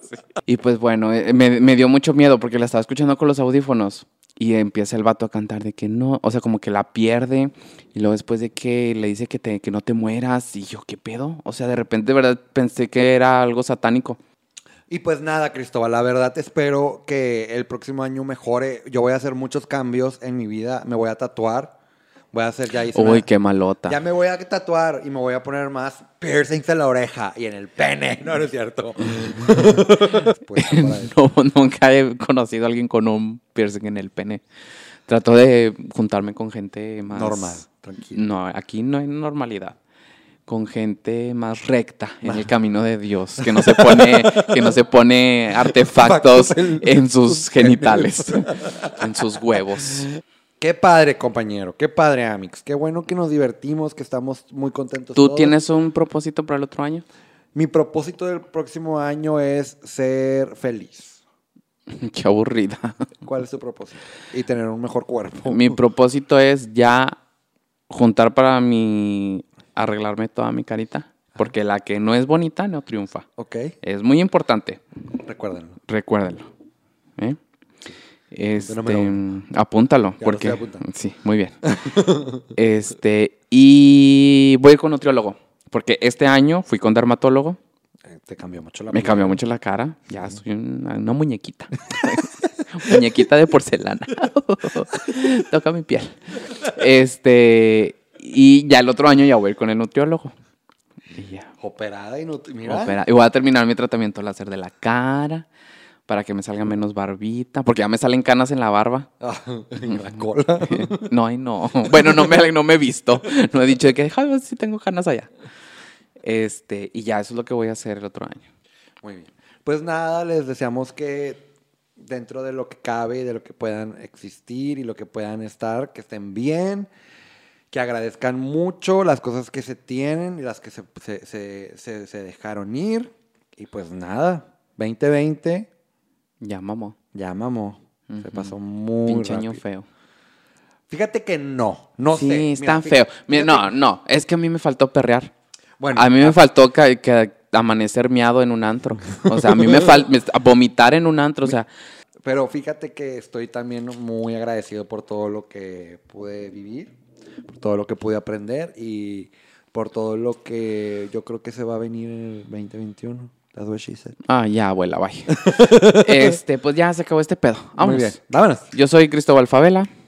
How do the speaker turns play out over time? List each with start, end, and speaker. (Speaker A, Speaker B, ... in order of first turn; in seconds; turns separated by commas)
Speaker A: 0.5-14.2, Speaker B: 14.9-21.8, Speaker B: 22.3-23.3, Speaker A: 22.9-24.0, Speaker B: 23.9-31.1, Speaker A: 29.9-34.4, Speaker A: 35.1-39.8, Speaker B: 37.1-38.2, Speaker A: 40.5-50.1, Speaker B: 42.2-42.5, Speaker B: 43.4-44.8, Speaker B: 45.6-49.8, Speaker B: 50.6-55.5, Speaker A: 55.2-57.0, Speaker B: 57.5-61.2, Speaker A: 61.9-63.1, Speaker B: 63.2-65.8, Speaker A: 65.5-67.2, Speaker A: 67.9-73.3, Speaker B: 73.4-73.8, Speaker A: 73.8-74.8, Speaker B: 75.2-75.8, Speaker A: 75.9-76.5, Speaker A: 78.3-81.6, Speaker B: 78.6-79.2, Speaker B: 80.2-80.8, Speaker B: 81.7-82.5, Speaker A: 82.5-87.6, Speaker B: 88.0-89.4, Speaker A: 88.9-100.3, Speaker A: 101.2-101.5, Speaker B: 101.6-103.0, Speaker A: 102.6-105.5, Speaker A: 106.1-109.1, Speaker B: 109.2-111.0, Speaker A: 110.6-115.3, Speaker B: 111.8-112.2, Speaker A: 116.2-118.5, Speaker B: 119.0-121.5, Speaker B: 122.0-126.9, Speaker B: 127.7-135.7, Speaker A: 136.4-137.0, Speaker B: 137.1-139.6, Speaker A: 138.1-138.6, Speaker A: 139.1-139.9, Speaker B: 140.9-143.7, Speaker A: 142.1-145.3, Speaker B: 145.8-146.4, Speaker A: 145.9-151.7, Speaker B: 149.3-150.0, Speaker B: 152.2-156.9, Speaker B: 157.5-164.2, Speaker A: 164.2-168.2, Speaker B: 165.3-166.4, Speaker B: 167.8-168.7, Speaker A: 168.7-169.9